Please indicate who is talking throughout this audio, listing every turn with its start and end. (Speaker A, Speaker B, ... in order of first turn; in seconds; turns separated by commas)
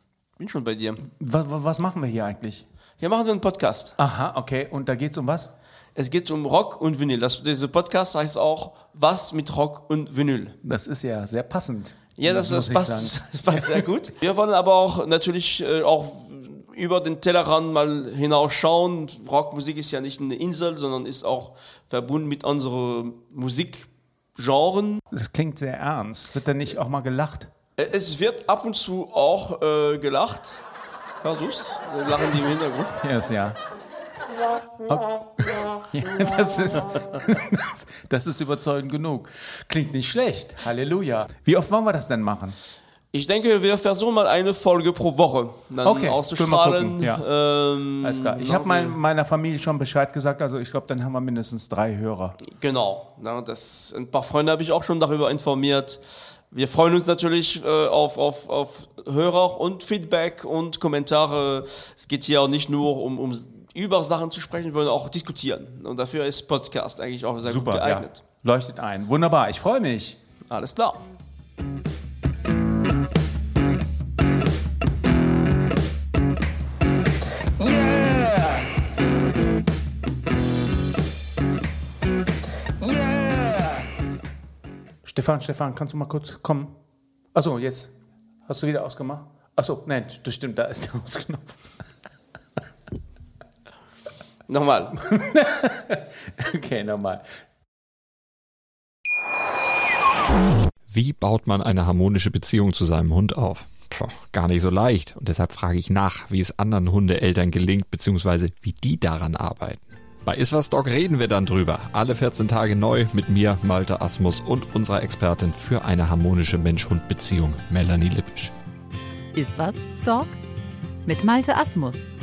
Speaker A: 0.3-1.0, Speaker B: 1.2-2.6, Speaker A: 3.0-4.0, Speaker B: 4.0-5.5, Speaker A: 5.9-10.6, Speaker B: 10.6-13.9, Speaker A: 12.2-25.0, Speaker B: 25.1-27.5, Speaker A: 27.8-30.6, Speaker A: 31.2-33.0, Speaker B: 33.0-33.6, Speaker B: 34.8-42.6, Speaker A: 43.1-49.0, Speaker B: 45.8-47.2, Speaker B: 48.0-52.4, Speaker A: 52.4-68.2, Speaker B: 67.4-70.2, Speaker A: 70.5-71.0, Speaker B: 85.0-86.7, Speaker B: 87.3-87.9, Speaker B: 88.5-91.6, Speaker A: 94.5-95.0, Speaker B: 95.0-97.2, Speaker C: 100.9-118.5, Speaker D: 119.3-120.3, Speaker D: 121.0-122.1